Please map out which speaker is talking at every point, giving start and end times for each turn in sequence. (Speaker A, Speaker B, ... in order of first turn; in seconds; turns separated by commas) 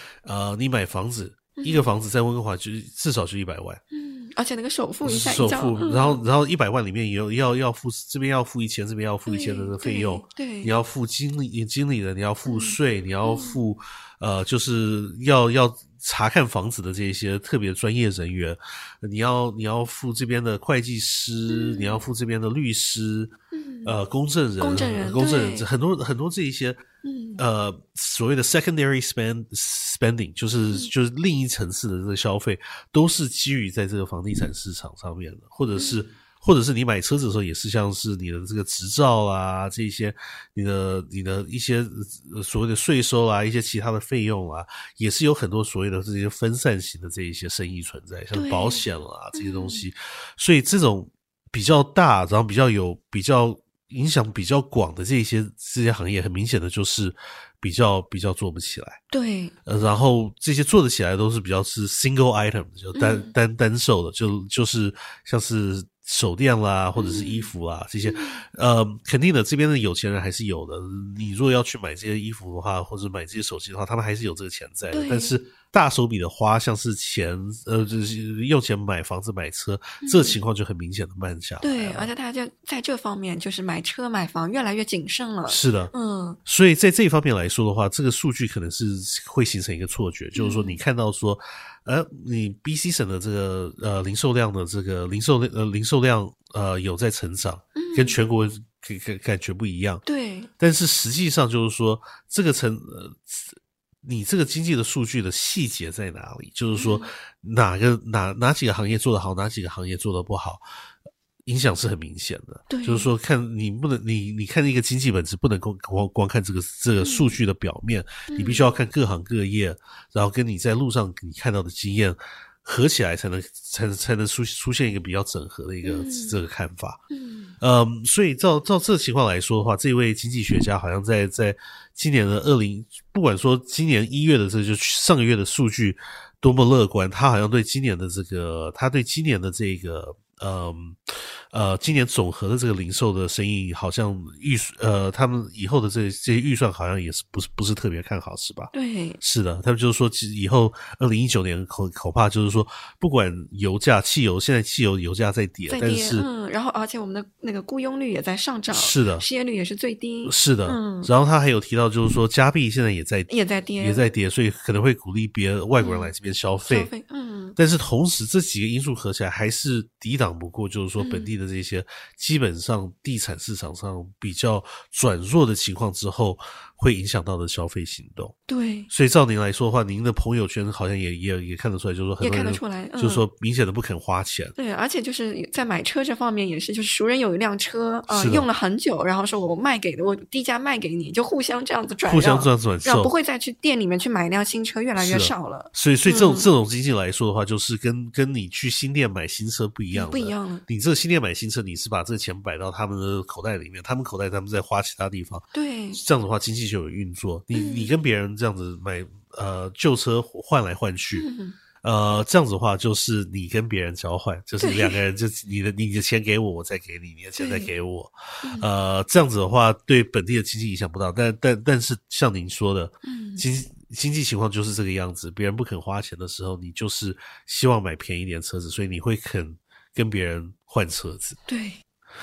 Speaker A: 0.2-3.8, Speaker B: 1.6-1.8, Speaker B: 3.9-6.2, Speaker A: 5.0-23.3, Speaker B: 9.3-10.7, Speaker B: 12.4-13.6, Speaker B: 21.5-22.0, Speaker B: 23.5-23.9, Speaker A: 23.8-26.8, Speaker B: 24.6-25.7, Speaker B: 27.0-27.4, Speaker A: 27.4-59.0, Speaker B: 35.7-36.0, Speaker B: 48.3-49.9, Speaker B: 59.1-59.5, Speaker A: 59.6-82.1, Speaker B: 62.9-63.3, Speaker B: 67.0-67.5, Speaker B: 68.1-68.4, Speaker B: 74.9-75.3, Speaker B: 80.0-80.4, Speaker B: 81.6-86.4, Speaker A: 85.5-85.9, Speaker A: 86.4-100.0, Speaker B: 90.3-90.8, Speaker B: 97.8-98.2, Speaker B: 100.0-100.5, Speaker A: 100.6-110.6, Speaker B: 106.7-107.1, Speaker A: 111.5-127.0, Speaker B: 112.7-113.1, Speaker B: 117.0-117.4, Speaker B: 118.3-118.7, Speaker B: 125.8-126.4, Speaker B: 127.1-127.5, Speaker A: 127.6-141.0, Speaker A: 141.5-156.3, Speaker B: 148.7-149.2, Speaker B: 155.7-161.1, Speaker A: 158.7-159.2, Speaker A: 160.2-166.9, Speaker B: 163.3-164.1, Speaker B: 165.8-166.1, Speaker B: 166.7-167.6, Speaker A: 167.6-178.3, Speaker B: 171.0-171.3, Speaker B: 178.5-178.9, Speaker A: 178.9-184.5, Speaker B: 182.2-183.2, Speaker B: 184.6-196.5, Speaker A: 188.1-188.5, Speaker A: 192.0-193.1, Speaker A: 195.0-211.3, Speaker B: 199.9-200.6, Speaker B: 205.5-206.0, Speaker B: 207.5-207.9, Speaker B: 211.1-211.6, Speaker A: 211.8-231.4, Speaker B: 214.6-215.0, Speaker B: 217.4-217.7, Speaker B: 218.4-218.7, Speaker B: 223.0-223.4, Speaker B: 231.5-231.8